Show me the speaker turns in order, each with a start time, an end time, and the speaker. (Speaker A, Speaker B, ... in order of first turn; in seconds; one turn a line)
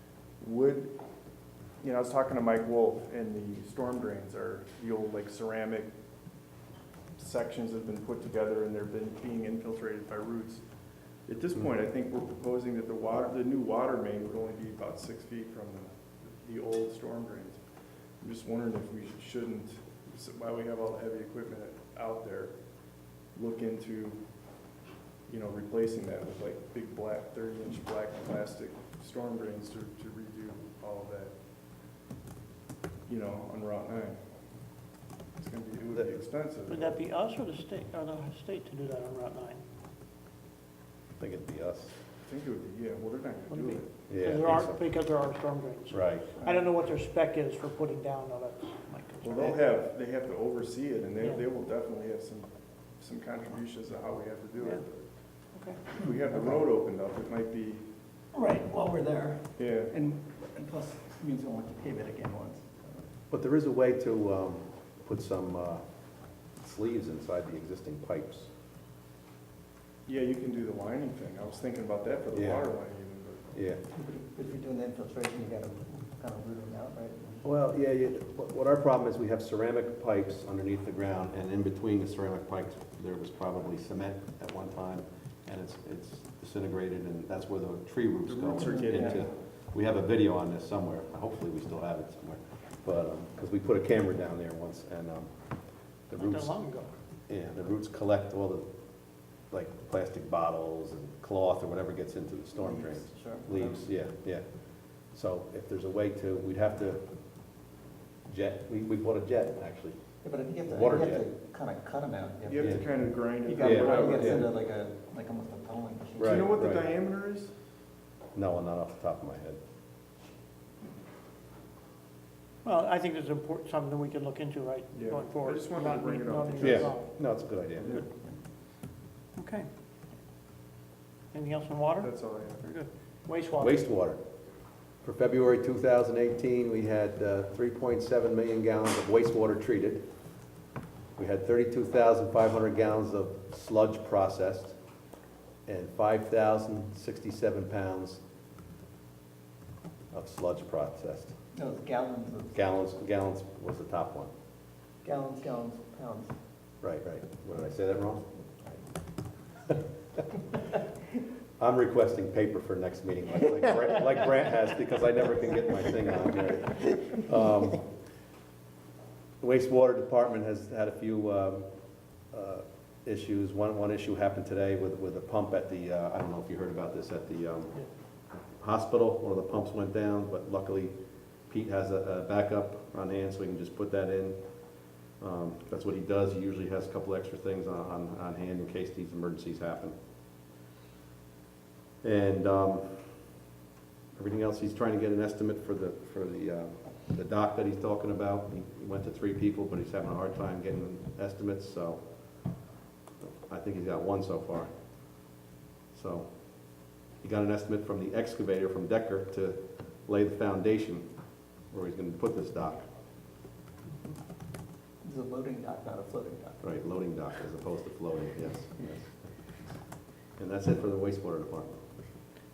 Speaker A: 0.4-1.0
Speaker A: 1.8-5.9
Speaker A: 7.2-10.6
Speaker A: 11.3-17.6
Speaker A: 18.2-22.5
Speaker A: 23.4-24.2
Speaker A: 25.3-31.4
Speaker A: 33.1-34.2
Speaker A: 35.4-37.0
Speaker B: 36.7-39.6
Speaker C: 41.2-41.9
Speaker A: 42.3-43.9
Speaker B: 43.5-49.6
Speaker C: 44.1-44.8
Speaker C: 45.9-46.3
Speaker A: 49.2-55.1
Speaker B: 55.5-55.8
Speaker A: 55.9-57.8
Speaker D: 56.0-56.6
Speaker D: 58.3-63.0
Speaker A: 59.6-59.9
Speaker C: 63.3-65.8
Speaker C: 66.6-68.5
Speaker A: 70.1-73.6
Speaker C: 72.3-72.7
Speaker C: 73.5-73.8
Speaker D: 73.9-77.4
Speaker C: 77.4-95.3
Speaker A: 88.3-89.3
Speaker D: 88.7-89.2
Speaker C: 96.1-96.5
Speaker B: 96.2-96.9
Speaker C: 97.3-98.7
Speaker C: 99.5-104.4
Speaker D: 102.6-103.8
Speaker C: 105.1-107.0
Speaker C: 108.3-110.0
Speaker D: 110.2-116.6
Speaker C: 110.7-111.2
Speaker A: 112.5-114.5
Speaker C: 112.6-112.9
Speaker C: 113.6-114.4
Speaker C: 116.2-116.9
Speaker A: 116.2-117.5
Speaker C: 118.3-119.6
Speaker B: 122.6-127.1
Speaker A: 124.9-127.0
Speaker C: 126.6-128.1
Speaker B: 129.4-129.7
Speaker B: 131.3-132.1
Speaker A: 132.0-132.7
Speaker B: 132.6-133.8
Speaker C: 133.6-134.2
Speaker C: 135.0-140.0
Speaker C: 141.2-144.8
Speaker C: 145.7-148.2
Speaker C: 150.1-151.3
Speaker D: 151.6-152.6
Speaker C: 152.5-154.3
Speaker D: 155.0-156.3
Speaker C: 156.8-158.3
Speaker C: 161.6-167.8
Speaker C: 169.4-171.7
Speaker C: 172.3-177.8
Speaker C: 178.6-180.9
Speaker C: 181.5-184.4
Speaker C: 185.2-190.0
Speaker C: 192.0-193.1
Speaker C: 194.2-202.0
Speaker C: 203.2-204.7
Speaker C: 205.9-206.3
Speaker C: 207.2-211.1
Speaker C: 211.7-212.8
Speaker D: 215.0-216.6
Speaker C: 216.6-219.1
Speaker C: 220.4-221.8